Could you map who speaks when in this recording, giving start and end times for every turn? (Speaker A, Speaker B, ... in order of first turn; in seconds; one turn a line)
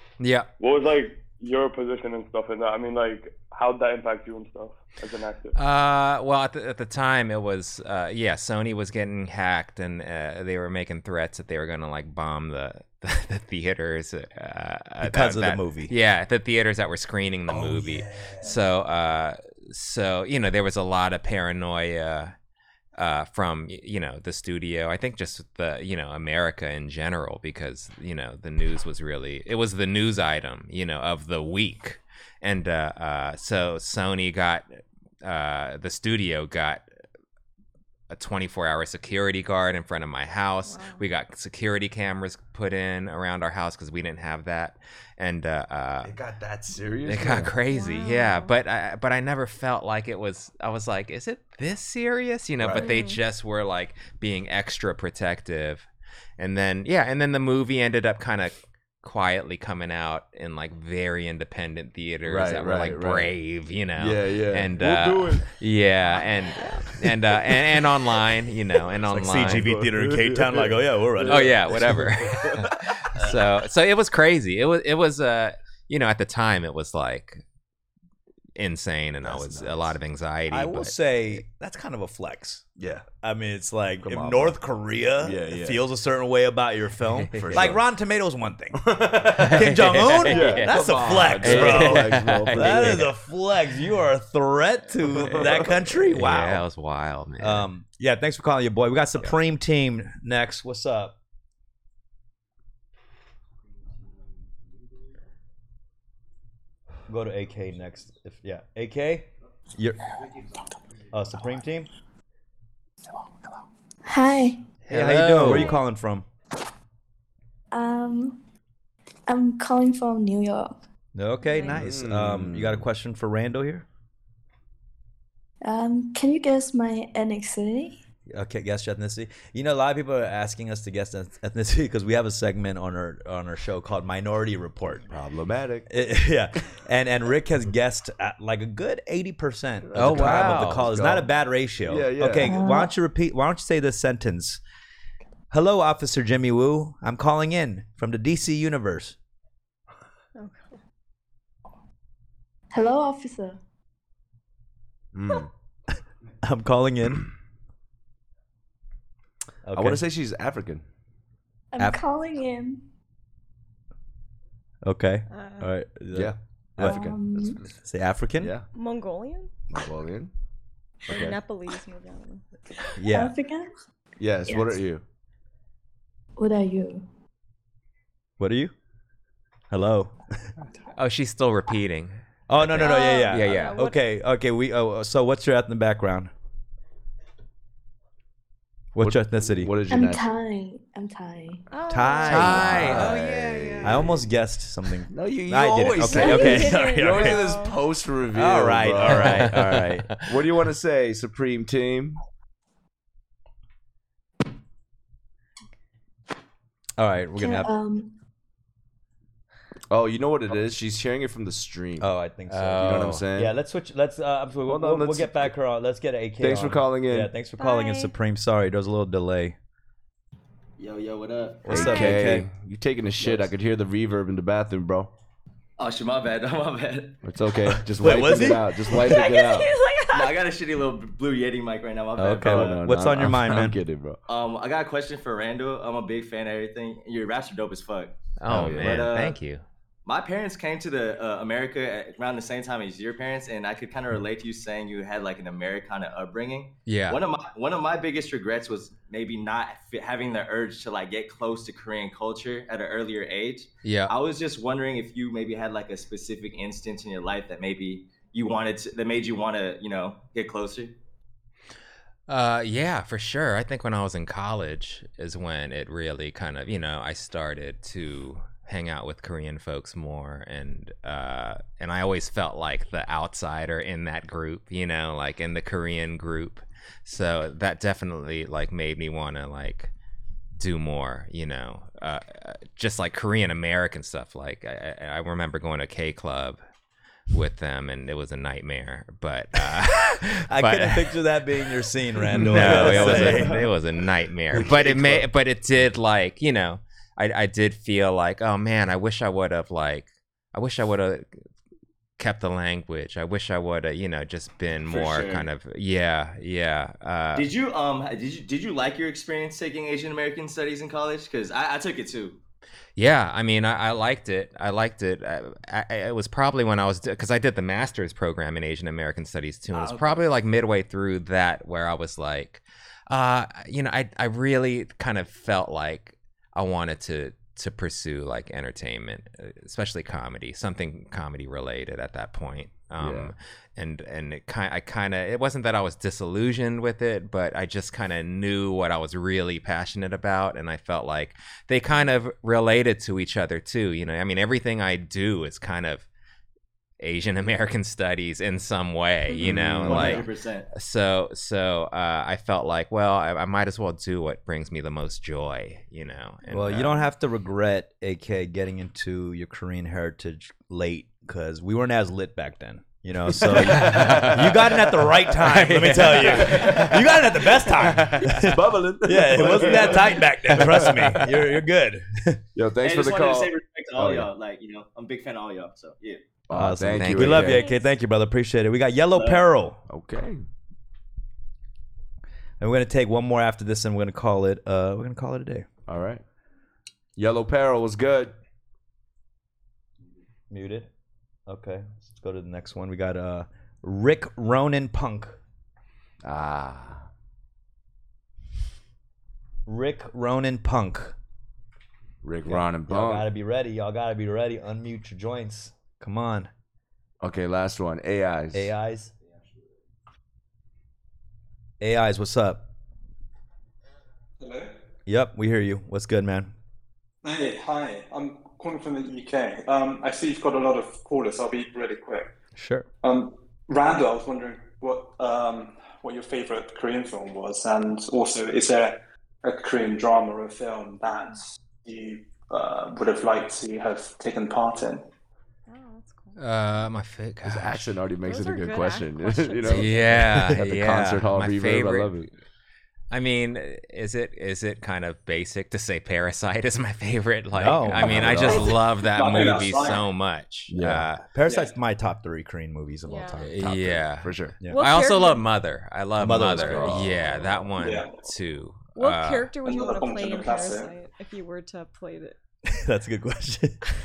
Speaker A: 0.2-0.5
Speaker B: 0.6-5.6
Speaker A: 5.6-22.3
Speaker C: 15.0-15.9
Speaker C: 17.5-18.5
Speaker A: 23.0-34.7
Speaker A: 35.2-36.9
Speaker A: 38.1-46.1
Speaker D: 40.6-41.1
Speaker E: 46.0-47.5
Speaker A: 47.0-55.9
Speaker D: 47.7-48.5
Speaker E: 52.6-52.9
Speaker D: 52.8-53.2
Speaker A: 56.4-69.7
Speaker E: 62.2-63.3
Speaker E: 64.0-65.5
Speaker D: 66.5-66.8
Speaker C: 69.1-72.0
Speaker E: 69.6-73.4
Speaker A: 71.3-77.4
Speaker A: 78.6-81.4
Speaker E: 79.2-80.0
Speaker C: 80.5-82.7
Speaker E: 82.8-83.1
Speaker C: 83.2-96.7
Speaker E: 84.0-84.6
Speaker E: 85.2-85.8
Speaker A: 87.2-87.8
Speaker E: 87.2-87.8
Speaker E: 88.8-93.1
Speaker A: 89.4-93.1
Speaker E: 95.1-95.7
Speaker A: 96.1-97.7
Speaker C: 97.4-101.2
Speaker C: 107.1-110.0
Speaker C: 111.1-111.9
Speaker F: 114.0-114.6
Speaker C: 114.9-116.3
Speaker A: 114.9-115.8
Speaker F: 117.7-118.4
Speaker F: 119.3-120.8
Speaker C: 121.2-123.9
Speaker D: 121.4-121.8
Speaker E: 121.7-122.9
Speaker F: 125.6-128.0
Speaker C: 128.3-135.1
Speaker E: 135.1-135.9
Speaker C: 135.9-144.6
Speaker E: 139.9-141.3
Speaker A: 139.9-140.9
Speaker E: 141.8-142.6
Speaker F: 142.4-142.9
Speaker C: 145.5-149.2
Speaker D: 150.4-150.8
Speaker F: 152.7-153.6
Speaker E: 155.1-155.5
Speaker C: 156.4-157.3
Speaker C: 159.7-160.0
Speaker E: 159.7-160.8
Speaker F: 161.7-162.8
Speaker C: 164.8-167.1
Speaker D: 165.3-165.7
Speaker E: 166.1-167.6
Speaker F: 166.8-167.6
Speaker C: 167.8-168.5
Speaker E: 168.4-168.7
Speaker D: 168.8-169.5
Speaker E: 169.7-170.3
Speaker D: 171.1-172.4
Speaker E: 171.1-171.4
Speaker C: 173.0-173.3
Speaker F: 173.1-173.7
Speaker E: 174.2-175.0
Speaker F: 174.4-174.8
Speaker F: 176.4-177.1
Speaker C: 178.4-178.7
Speaker C: 179.7-180.5
Speaker A: 180.9-183.8
Speaker C: 182.5-186.3
Speaker D: 182.8-184.0
Speaker C: 188.9-189.7
Speaker E: 189.0-190.3
Speaker F: 189.9-191.7
Speaker D: 191.7-193.8
Speaker C: 191.9-193.2
Speaker A: 192.3-194.0
Speaker E: 192.7-194.2
Speaker C: 193.8-197.5
Speaker E: 195.1-199.7
Speaker D: 196.1-197.8
Speaker C: 198.3-200.2
Speaker A: 199.1-200.2
Speaker E: 200.2-202.2
Speaker C: 207.0-207.7
Speaker F: 207.4-208.1
Speaker E: 209.9-212.1
Speaker C: 212.0-219.6
Speaker A: 212.5-213.3
Speaker E: 212.8-213.5
Speaker E: 214.7-215.5
Speaker E: 216.4-217.3
Speaker D: 217.6-218.1
Speaker G: 220.8-221.7
Speaker C: 221.7-222.5
Speaker E: 221.7-225.1
Speaker D: 221.7-222.2
Speaker G: 223.2-223.5
Speaker G: 225.8-227.2
Speaker E: 227.2-229.8
Speaker C: 227.9-228.8
Speaker D: 228.9-230.4
Speaker G: 230.1-232.8
Speaker C: 232.2-233.8
Speaker E: 232.2-234.2
Speaker G: 234.3-239.4
Speaker A: 238.4-239.6
Speaker E: 238.5-239.1
Speaker G: 240.1-261.0
Speaker A: 246.9-247.2
Speaker A: 253.8-254.1
Speaker A: 262.3-279.9
Speaker A: 280.6-286.6
Speaker A: 287.3-291.2
Speaker C: 290.5-293.7
Speaker E: 292.3-293.7
Speaker A: 292.3-301.3
Speaker E: 294.5-295.3
Speaker A: 302.2-307.5
Speaker G: 304.8-305.5
Speaker G: 307.4-312.4
Speaker A: 313.0-346.1
Speaker E: 333.0-333.3
Speaker A: 347.0-357.1
Speaker E: 349.4-350.3
Speaker G: 349.9-350.7
Speaker C: 356.5-372.4
Speaker E: 363.3-364.5
Speaker A: 363.6-367.1
Speaker E: 366.1-367.0
Speaker A: 367.7-368.3
Speaker E: 368.4-371.1
Speaker A: 369.5-369.9
Speaker A: 370.4-371.3
Speaker E: 372.6-374.3
Speaker G: 372.8-376.3
Speaker E: 376.5-377.6
Speaker C: 376.5-379.8
Speaker A: 376.9-377.6
Speaker D: 377.4-377.9
Speaker G: 379.1-379.4
Speaker E: 379.9-380.4
Speaker C: 382.6-385.7
Speaker E: 385.9-386.2
Speaker E: 387.2-388.4
Speaker C: 390.5-390.9
Speaker C: 391.5-395.4
Speaker E: 396.2-397.1
Speaker C: 399.7-401.2
Speaker E: 402.2-403.3
Speaker C: 402.5-406.5
Speaker E: 407.2-408.7
Speaker C: 408.5-409.1
Speaker C: 411.8-412.6
Speaker H: 414.4-414.7
Speaker C: 415.1-416.5
Speaker H: 417.2-422.3
Speaker C: 422.6-422.9
Speaker H: 423.0-435.1
Speaker D: 435.7-436.4
Speaker A: 436.4-437.9
Speaker E: 437.4-442.3
Speaker D: 438.2-440.0
Speaker A: 439.7-442.2
Speaker C: 440.1-440.7
Speaker A: 443.1-451.2
Speaker C: 447.5-448.7
Speaker E: 448.0-448.7
Speaker H: 448.4-450.1
Speaker E: 450.7-451.1
Speaker C: 451.3-454.8
Speaker H: 451.4-451.7
Speaker D: 453.1-453.5
Speaker A: 453.4-459.5
Speaker E: 454.2-454.6
Speaker D: 454.7-455.5
Speaker C: 456.2-457.1
Speaker E: 456.5-457.5
Speaker H: 457.8-458.2
Speaker D: 459.0-462.4
Speaker H: 459.6-460.9
Speaker C: 462.7-463.8